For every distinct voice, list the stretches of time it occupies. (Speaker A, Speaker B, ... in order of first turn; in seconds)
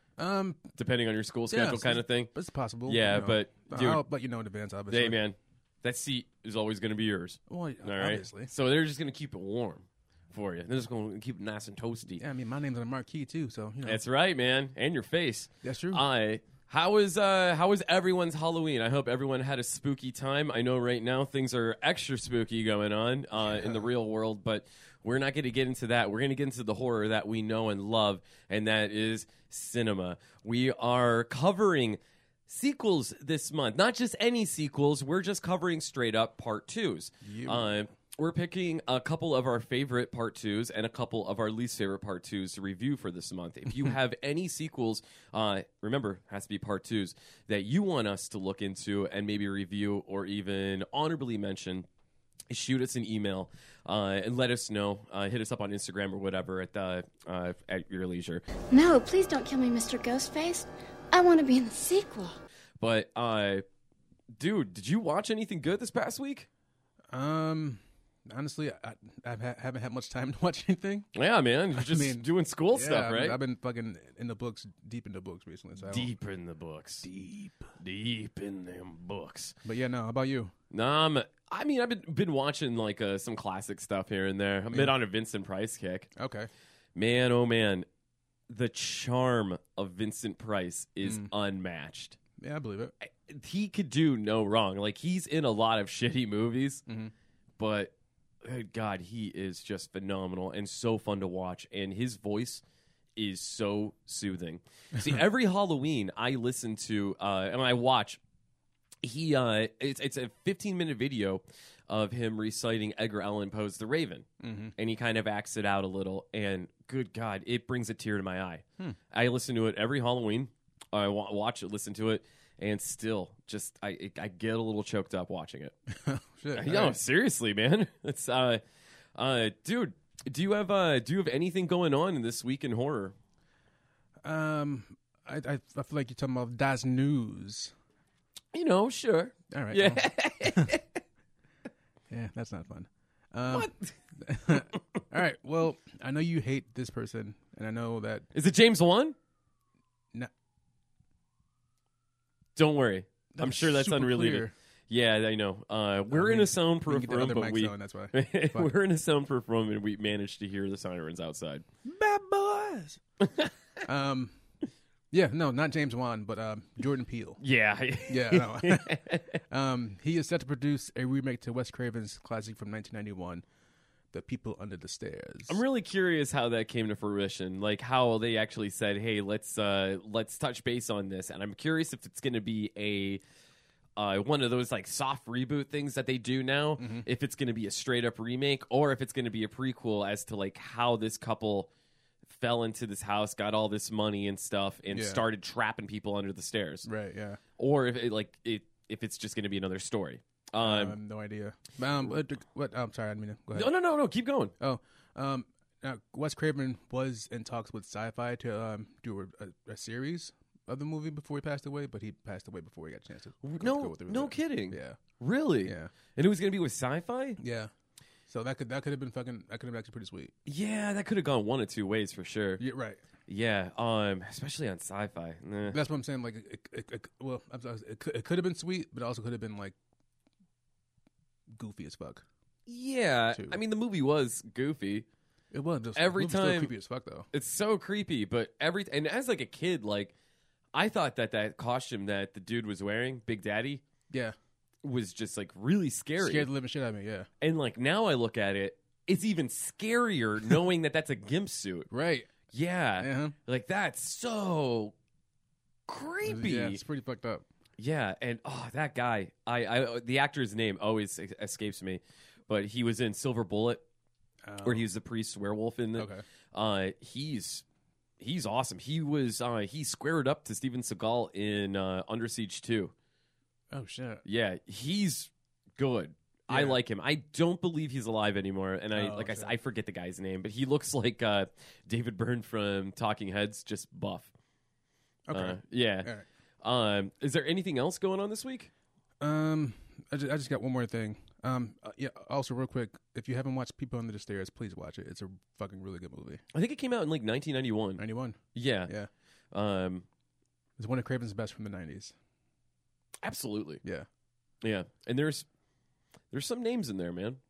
Speaker A: 0.2-0.7, 1.5-5.2, 7.5-8.5, 12.2-14.0, 15.6-16.0, 23.5-23.8, 37.2-37.8, 67.1-71.1, 71.7-76.1, 77.0-77.7, 79.6-80.5, 86.2-86.5, 91.0-91.3, 92.4-92.9, 96.9-97.1, 104.9-105.2, 114.4-114.7, 125.9-127.0, 134.2-137.7, 139.5-140.7, 142.1-148.3, 153.3-154.5, 156.1-158.7, 161.8-163.0, 163.8-164.3, 165.1-167.4, 168.1-173.4, 174.1-175.6, 186.8-187.1, 194.9-195.2, 196.8-197.4, 200.6-203.7, 204.6-215.0, 215.6-215.9, 217.4-217.7, 218.3-220.3, 222.6-223.0, 225.7-229.8, 231.5-232.2, 233.3-233.6, 235.5-237.3, 246.2-247.3, 251.9-252.3, 253.0-253.3, 256.2-257.4, 264.4-264.9, 265.9-266.2, 273.7-274.2, 276.5-276.8, 278.9-279.5, 285.3-286.3, 289.2-296.4, 298.0-299.1, 300.8-302.1
Speaker B: 0.8-2.3, 2.9-4.0, 4.9-12.2, 13.8-51.9, 52.5-58.5, 62.8-63.6, 64.3-66.5, 71.1-73.4, 75.8-77.1, 77.8-79.5, 80.7-86.1, 86.9-87.9, 88.5-92.2, 93.0-96.8, 97.6-102.6, 103.2-108.2, 109.0-125.7, 126.5-128.6, 129.2-133.1, 138.5-141.0, 143.5-143.9, 148.3-149.2, 152.6-161.6, 163.2-163.5, 167.4-169.4, 175.5-183.2, 184.0-191.7, 192.3-196.9, 197.6-201.0, 203.5-204.5, 213.4-217.4, 220.4-222.6, 223.3-225.8, 232.7-235.1, 235.9-236.7, 237.3-240.1, 240.7-243.8, 244.8-246.5, 247.4-251.9, 252.5-254.9, 255.9-256.8, 257.8-263.8, 264.6-267.6, 268.2-272.9, 274.2-284.3, 285.3-286.1, 286.6-288.7, 296.5-298.0, 298.5-298.9, 299.5-300.1, 303.2-303.8, 304.6-305.4, 306.3-307.4
Speaker C: 58.7-62.4